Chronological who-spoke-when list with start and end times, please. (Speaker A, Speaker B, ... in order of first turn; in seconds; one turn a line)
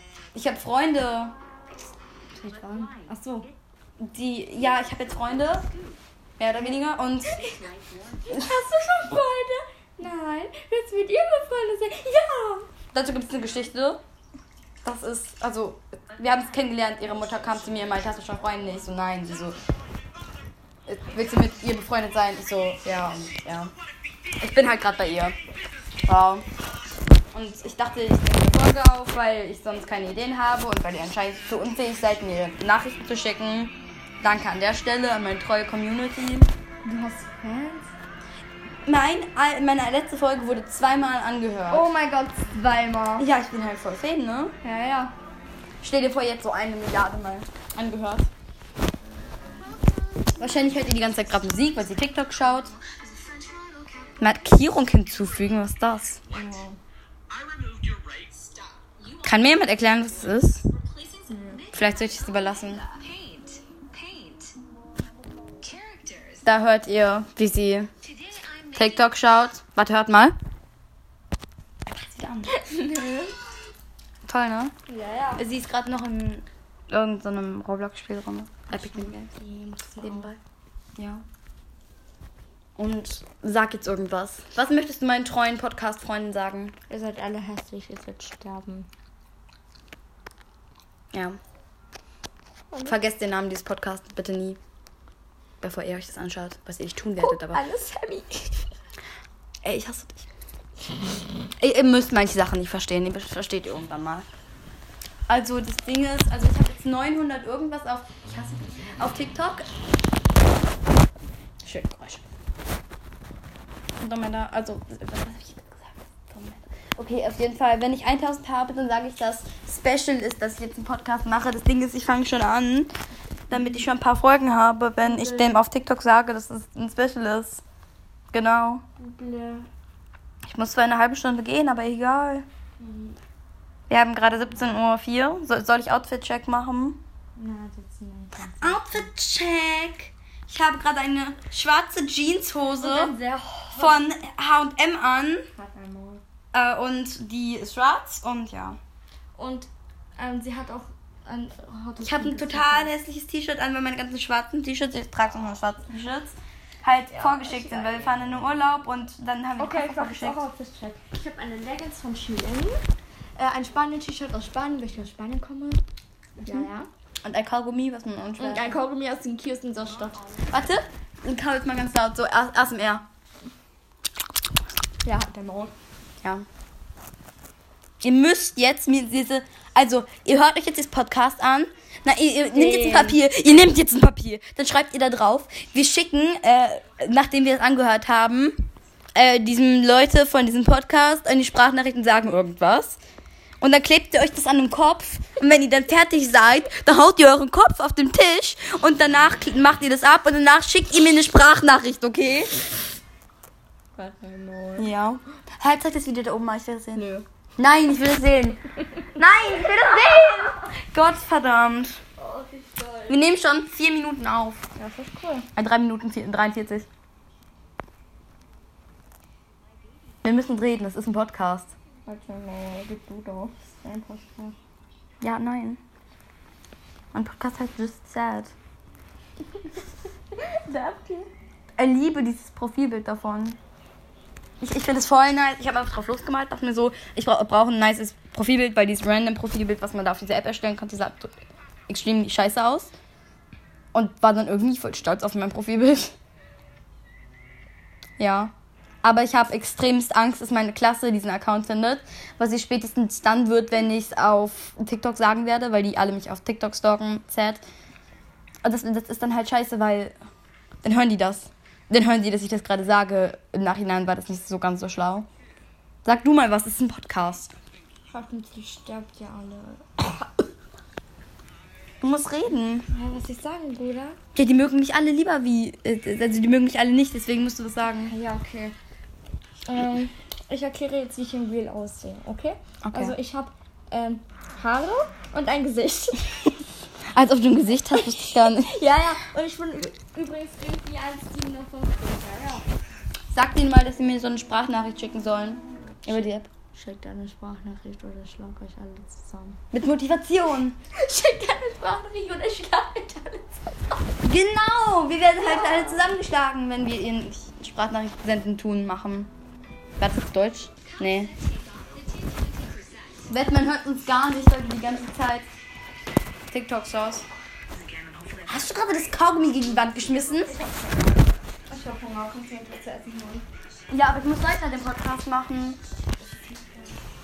Speaker A: 0.3-1.4
Speaker B: 2.3-3.5
Speaker A: 4.0-5.7
Speaker A: 6.4-7.5
Speaker B: 8.3-12.7
Speaker A: 12.9-14.0
Speaker A: 14.8-19.6
Speaker A: 20.9-23.7
Speaker A: 24.4-25.4
Speaker A: 26.0-26.4
Speaker A: 27.3-36.5
Speaker B: 36.9-37.9
Speaker A: 38.9-41.9
Speaker B: 41.7-43.3
Speaker A: 43.2-44.5
Speaker B: 44.6-45.1
Speaker A: 45.8-48.3
Speaker A: 50.4-52.8
Speaker A: 54.2-56.2
Speaker B: 56.3-56.8
Speaker C: 57.6-58.6
Speaker A: 59.2-60.6
Speaker B: 61.3-61.7
Speaker A: 61.7-62.9
Speaker C: 62.9-64.5
Speaker C: 65.6-66.3
Speaker A: 66.4-67.9
Speaker A: 68.7-70.4
Speaker A: 71.9-72.5
Speaker B: 72.5-73.4
Speaker A: 74.2-74.7
Speaker B: 74.9-75.4
Speaker A: 75.4-79.2
Speaker B: 78.7-80.3
Speaker A: 80.0-80.4
Speaker A: 81.0-81.2
Speaker A: 82.8-86.8
Speaker B: 86.9-88.9
Speaker A: 91.1-91.4
Speaker B: 92.7-93.0
Speaker A: 92.8-94.6
Speaker A: 95.6-97.6
Speaker B: 97.2-98.7
Speaker A: 99.6-100.3
Speaker A: 101.6-104.3
Speaker A: 105.3-109.7
Speaker A: 111.6-112.2
Speaker A: 114.0-122.9
Speaker A: 123.5-127.6
Speaker B: 125.0-125.6
Speaker A: 128.3-128.8
Speaker B: 129.0-129.7
Speaker A: 130.4-132.5
Speaker B: 132.8-133.2
Speaker A: 133.9-137.0
Speaker B: 137.4-139.1
Speaker A: 138.6-143.2
Speaker B: 142.8-144.1
Speaker A: 143.8-145.4
Speaker B: 145.6-146.2
Speaker A: 146.5-148.8
Speaker B: 149.4-152.9
Speaker A: 152.0-160.4
Speaker B: 157.1-158.2
Speaker B: 159.6-162.8
Speaker B: 163.4-165.8
Speaker B: 166.4-166.9
Speaker A: 167.2-168.8
Speaker B: 168.4-170.4
Speaker A: 170.5-173.1
Speaker B: 175.0-175.7
Speaker A: 178.0-188.5
Speaker B: 182.5-183.2
Speaker A: 189.2-193.0
Speaker A: 193.6-202.5
Speaker B: 204.0-204.9
Speaker A: 204.8-207.1
Speaker B: 206.9-207.2
Speaker A: 207.6-212.0
Speaker B: 212.2-213.2
Speaker A: 213.1-214.6
Speaker B: 214.8-215.5
Speaker A: 215.6-216.9
Speaker A: 220.2-221.7
Speaker B: 222.1-224.6
Speaker A: 225.2-225.8
Speaker A: 227.1-228.5
Speaker B: 230.4-231.3
Speaker A: 231.8-233.6
Speaker A: 234.6-241.4
Speaker A: 241.9-242.9
Speaker A: 243.9-246.2
Speaker A: 248.2-248.5
Speaker A: 249.0-257.6
Speaker A: 258.6-260.2
Speaker A: 260.8-265.3
Speaker A: 266.1-267.5
Speaker B: 268.1-270.4
Speaker A: 272.0-272.9
Speaker B: 272.9-274.2
Speaker A: 274.4-278.1
Speaker B: 278.1-278.8
Speaker B: 279.6-286.2
Speaker A: 282.8-283.2
Speaker A: 287.1-288.7
Speaker B: 287.9-292.7
Speaker A: 293.3-296.5
Speaker B: 296.1-299.6
Speaker A: 299.7-300.8
Speaker B: 301.0-303.6
Speaker A: 304.2-309.3
Speaker B: 305.4-306.1
Speaker A: 310.0-311.4
Speaker A: 313.3-315.5
Speaker A: 316.5-317.3
Speaker A: 318.3-320.6
Speaker B: 320.5-323.5
Speaker A: 323.9-325.8
Speaker B: 326.2-327.0